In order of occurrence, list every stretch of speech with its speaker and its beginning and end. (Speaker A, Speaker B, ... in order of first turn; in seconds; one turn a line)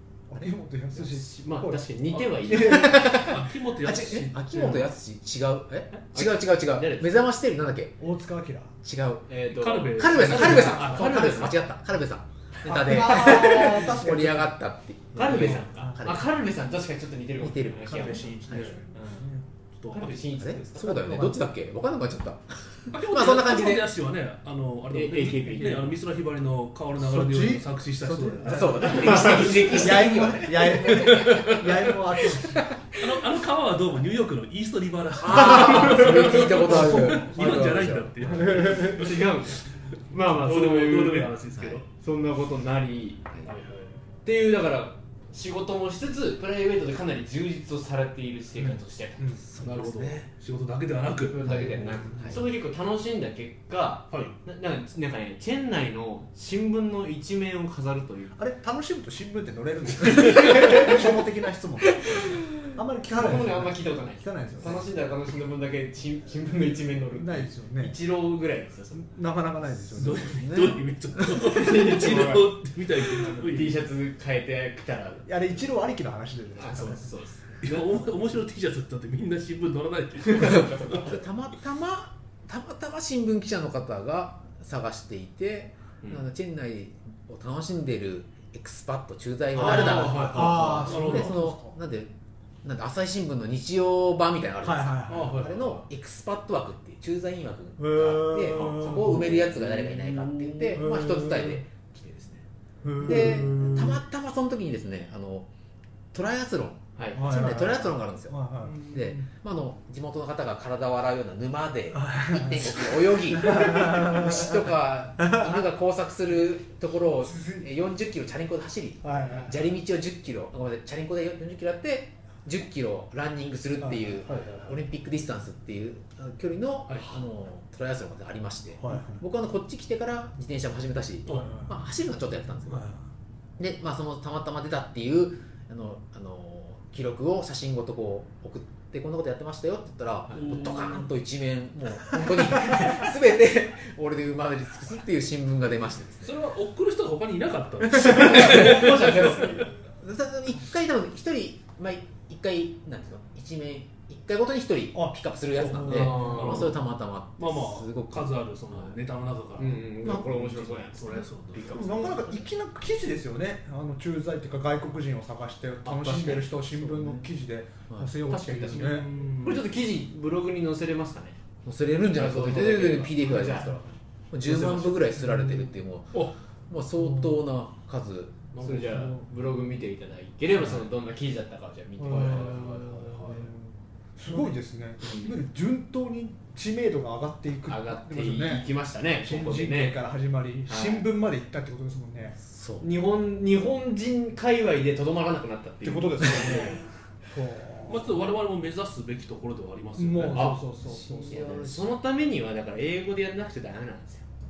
Speaker A: 0.3-3.2
Speaker B: 0.9-3.3
Speaker C: 2.1-4.7
Speaker D: 2.5-8.0
Speaker B: 5.9-7.2
Speaker A: 8.0-8.8
Speaker D: 8.8-9.3
Speaker B: 9.3-11.6
Speaker C: 9.5-11.3
Speaker D: 9.9-16.3
Speaker A: 10.4-10.9
Speaker A: 12.6-14.5
Speaker B: 12.7-13.9
Speaker B: 15.1-18.4
Speaker C: 15.2-15.6
Speaker A: 15.3-16.2
Speaker D: 17.4-18.7
Speaker A: 17.8-19.4
Speaker C: 18.5-18.8
Speaker B: 18.9-19.2
Speaker C: 19.8-20.3
Speaker B: 19.9-21.4
Speaker D: 20.3-23.9
Speaker C: 22.9-30.1
Speaker B: 24.9-25.9
Speaker A: 27.0-32.7
Speaker D: 28.5-31.6
Speaker B: 29.0-30.2
Speaker C: 30.9-31.5
Speaker D: 32.3-33.0
Speaker C: 32.9-39.2
Speaker D: 35.2-38.6
Speaker A: 35.8-39.1
Speaker B: 38.5-41.3
Speaker C: 40.1-41.9
Speaker D: 41.5-41.8
Speaker B: 41.9-43.2
Speaker C: 43.4-44.0
Speaker B: 44.2-49.2
Speaker A: 48.6-49.4
Speaker D: 49.4-50.3
Speaker C: 49.6-51.9
Speaker B: 51.3-58.4
Speaker D: 51.4-52.4
Speaker A: 51.9-52.4
Speaker C: 54.1-54.3
Speaker A: 58.4-64.9
Speaker B: 60.3-60.9
Speaker B: 63.1-69.0
Speaker A: 67.1-68.0
Speaker A: 68.9-70.4
Speaker C: 69.9-73.8
Speaker D: 70.3-71.4
Speaker B: 71.4-72.5
Speaker B: 73.2-75.3
Speaker A: 75.2-77.1
Speaker B: 76.5-77.6
Speaker C: 77.6-81.0
Speaker B: 80.2-81.2
Speaker D: 81.0-92.1
Speaker C: 89.5-91.4
Speaker A: 89.6-91.8
Speaker D: 92.6-102.4
Speaker A: 94.6-95.6
Speaker C: 95.1-95.8
Speaker A: 97.8-99.4
Speaker B: 98.5-98.9
Speaker C: 98.6-100.8
Speaker A: 100.7-101.6
Speaker A: 102.8-104.0
Speaker D: 103.0-105.5
Speaker D: 106.1-108.4
Speaker B: 107.0-107.2
Speaker A: 107.1-109.0
Speaker C: 108.6-109.2
Speaker D: 108.9-132.9
Speaker A: 111.9-114.6
Speaker A: 115.2-115.7
Speaker A: 117.2-117.7
Speaker A: 119.0-119.6
Speaker A: 123.8-124.6
Speaker C: 124.2-124.8
Speaker C: 126.9-127.2
Speaker A: 128.8-129.2
Speaker C: 131.2-131.5
Speaker A: 131.3-131.7
Speaker A: 132.7-133.1
Speaker D: 133.6-146.3
Speaker C: 140.3-141.1
Speaker C: 146.2-149.6
Speaker B: 147.9-149.7
Speaker D: 148.4-148.9
Speaker D: 150.0-159.0
Speaker A: 154.9-156.4
Speaker C: 155.6-156.8
Speaker B: 155.9-156.7
Speaker C: 157.4-161.8
Speaker B: 159.6-162.4
Speaker D: 160.0-160.4
Speaker A: 161.7-169.1
Speaker B: 165.8-166.5
Speaker D: 166.6-167.3
Speaker B: 168.2-171.4
Speaker C: 168.7-169.6
Speaker D: 171.6-178.4
Speaker B: 172.1-173.8
Speaker B: 174.5-174.9
Speaker A: 177.0-177.3
Speaker B: 178.5-183.5
Speaker A: 178.8-179.2
Speaker A: 182.0-188.7
Speaker C: 182.1-183.5
Speaker B: 184.3-185.3
Speaker B: 187.7-190.0
Speaker A: 189.2-192.4
Speaker B: 190.7-191.1
Speaker D: 192.4-192.9
Speaker B: 192.8-196.8
Speaker A: 195.8-198.3
Speaker C: 197.9-200.6
Speaker A: 200.0-201.7
Speaker B: 200.3-204.2
Speaker D: 200.9-201.9